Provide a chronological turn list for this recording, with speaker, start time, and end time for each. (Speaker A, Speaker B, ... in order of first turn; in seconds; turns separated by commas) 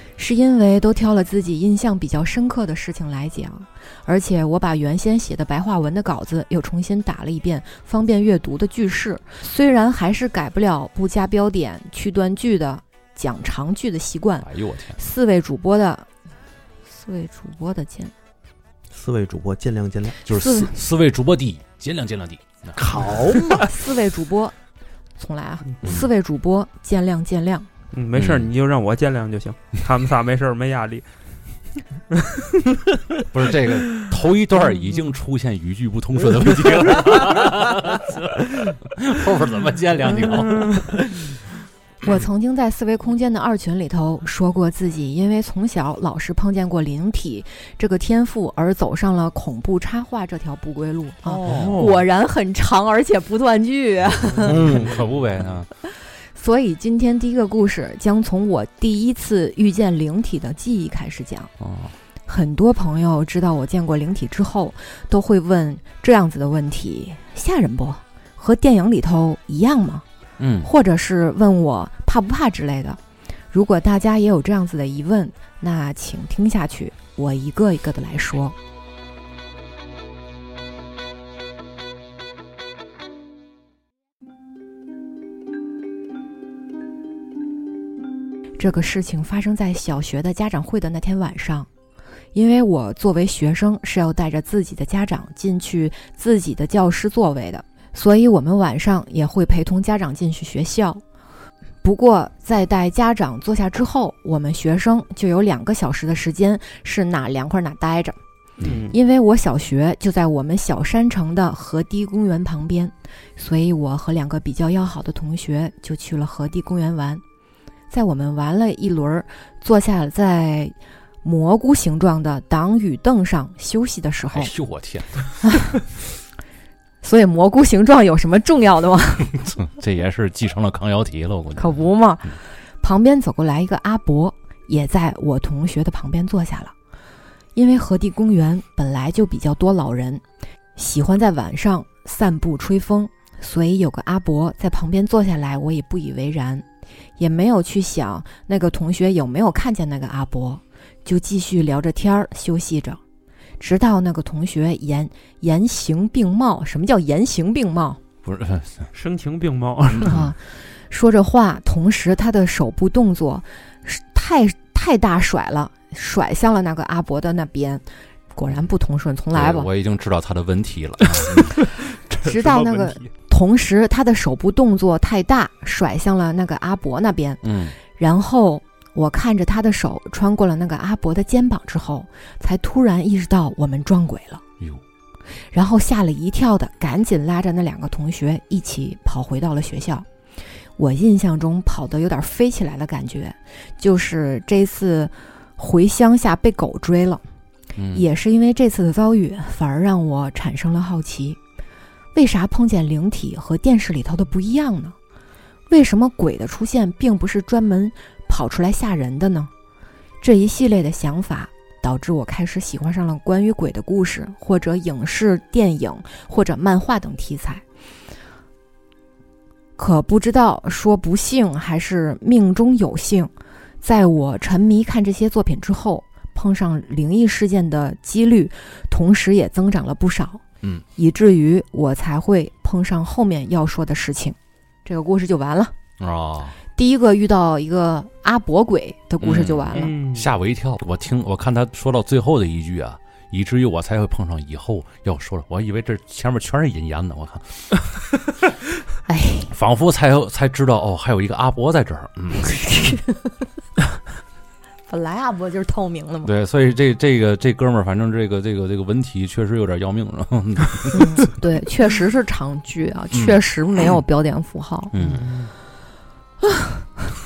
Speaker A: 0.2-16.1, Speaker B: 14.4-15.0, Speaker A: 16.9-18.1, Speaker C: 18.9-20.2, Speaker A: 20.2-20.8, Speaker B: 20.3-23.4, Speaker C: 22.8-23.7, Speaker A: 23.6-24.6, Speaker A: 25.2-27.7, Speaker D: 27.9-31.1, Speaker B: 28.1-28.5, Speaker D: 32.1-32.7, Speaker B: 33.3-41.0, Speaker D: 40.5-40.8, Speaker A: 42.0-54.7, Speaker D: 51.3-51.7, Speaker B: 51.4-51.9, Speaker C: 51.5-51.9, Speaker C: 54.5-55.0, Speaker B: 54.5-55.7, Speaker A: 56.4-61.5, Speaker B: 61.6-61.9, Speaker A: 62.3-70.0, Speaker B: 70.4-70.7, Speaker A: 70.6-73.0, Speaker A: 73.5-78.5, Speaker A: 88.6-91.7, Speaker A: 92.3-101.0, Speaker A: 101.8-108.2, Speaker D: 108.6-109.0, Speaker A: 108.9-117.2, Speaker A: 117.9-124.5, Speaker B: 124.3-125.4, Speaker A: 125.4-125.8, Speaker A: 127.0-129.4, Speaker B: 129.4-131.8, Speaker A: 131.6-136.7, Speaker A: 137.6-140.2, Speaker A: 140.8-146.7, Speaker A: 147.2-153.0, Speaker A: 153.6-158.0, Speaker B: 158.2-158.9, Speaker D: 158.9-160.2, Speaker B: 159.9-160.3, Speaker A: 160.1-160.4, Speaker A: 160.9-169.7, Speaker B: 169.3-171.7, Speaker D: 171.9-173.1, Speaker A: 172.2-184.4, Speaker B: 177.4-177.8, Speaker A: 185.5-190.1, Speaker A: 190.8-197.2, Speaker B: 197.8-198.1, Speaker A: 197.9-201.4, Speaker A: 202.2-204.9, Speaker A: 205.7-209.5, Speaker A: 210.2-217.6, Speaker A: 219.8-223.3, Speaker A: 223.8-230.4, Speaker A: 231.0-235.7, Speaker B: 236.0-236.6, Speaker A: 236.8-240.0, Speaker B: 239.2-247.9, Speaker D: 239.7-240.3, Speaker A: 249.1-249.5, Speaker B: 249.5-252.9, Speaker A: 252.5-253.5, Speaker A: 254.9-256.3, Speaker B: 256.2-261.2, Speaker A: 260.9-265.2, Speaker B: 263.1-263.4, Speaker B: 264.9-265.2, Speaker D: 265.0-265.5